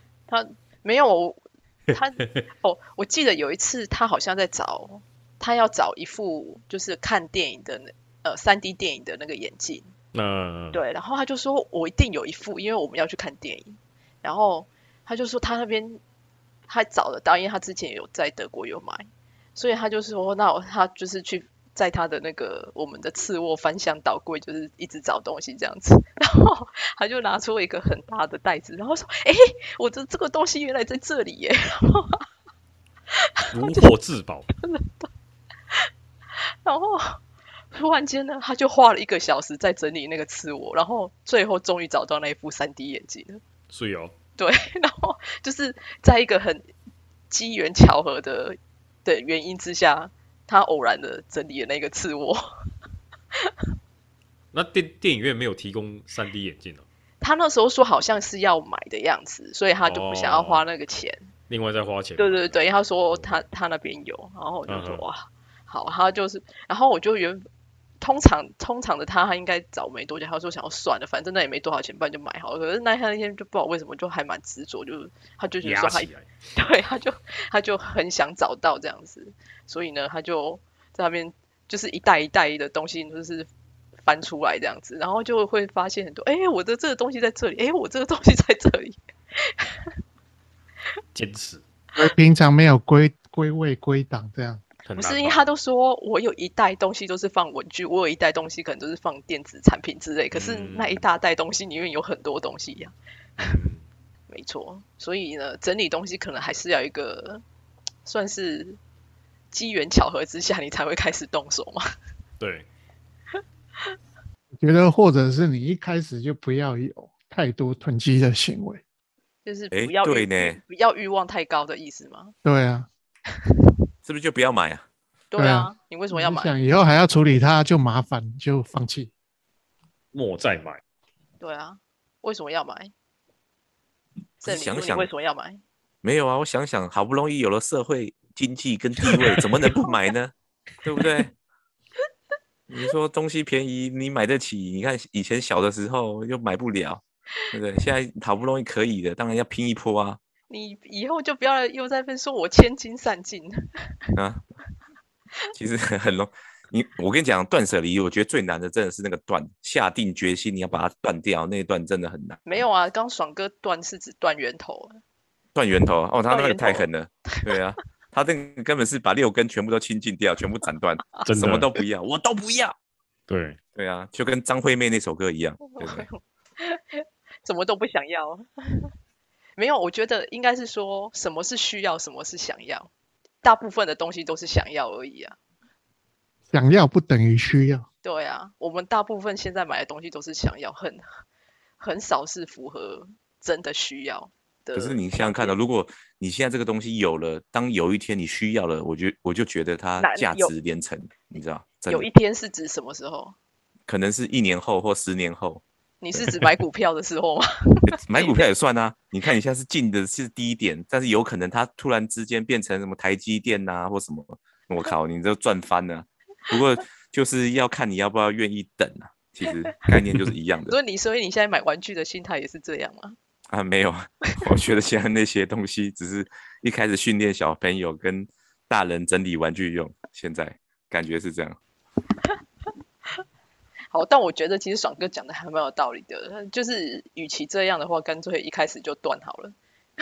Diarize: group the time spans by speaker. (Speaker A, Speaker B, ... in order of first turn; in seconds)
Speaker A: 0.3-9.9, 10.7-16.0, 16.7-32.2, 33.4-33.9, 34.5-35.1, 36.4-37.2, 37.7-43.4, 44.4-46.6, 47.3-52.5, 57.2-61.2, 62.2-67.4, 68.0-83.5, 84.0-89.9, 95.0-102.9, 104.3-107.4, 108.0-108.8, 109.5-111.8, 119.4-122.3, 125.3-126.5, 131.4-132.9, 134.4-135.6, 150.5-153.6, 162.4-165.0, 166.3-167.5, 175.7-178.9, 179.6-182.9, 183.4-185.4, 188.0-191.0, 191.8-195.5, 200.0-200.5, 201.9-203.3, 206.0-208.4, 220.7-223.1, 233.9-239.5
Speaker B: 10.1-10.8, 33.5-34.5, 43.7-44.1, 54.5-56.9, 59.8-60.6, 61.5-62.6, 63.1-63.4, 64.7-65.0, 75.6-76.3, 91.1-91.6, 94.8-95.5, 100.3-101.0, 103.4-103.8, 112.4-112.7, 130.1-130.8, 171.3-171.7, 173.3-173.6
Speaker C: 92.0-94.6, 114.6-118.8, 122.4-122.9, 125.3-129.1, 186.5-187.8
Speaker D: 119.7-120.6, 124.0-124.8, 134.4-135.1, 136.0-140.3, 140.8-141.3, 142.7-150.2, 154.2-154.4, 155.5-162.4, 165.5-172.7, 173.8-176.1, 194.7-202.1, 203.9-205.6, 207.9-220.8, 223.5-231.6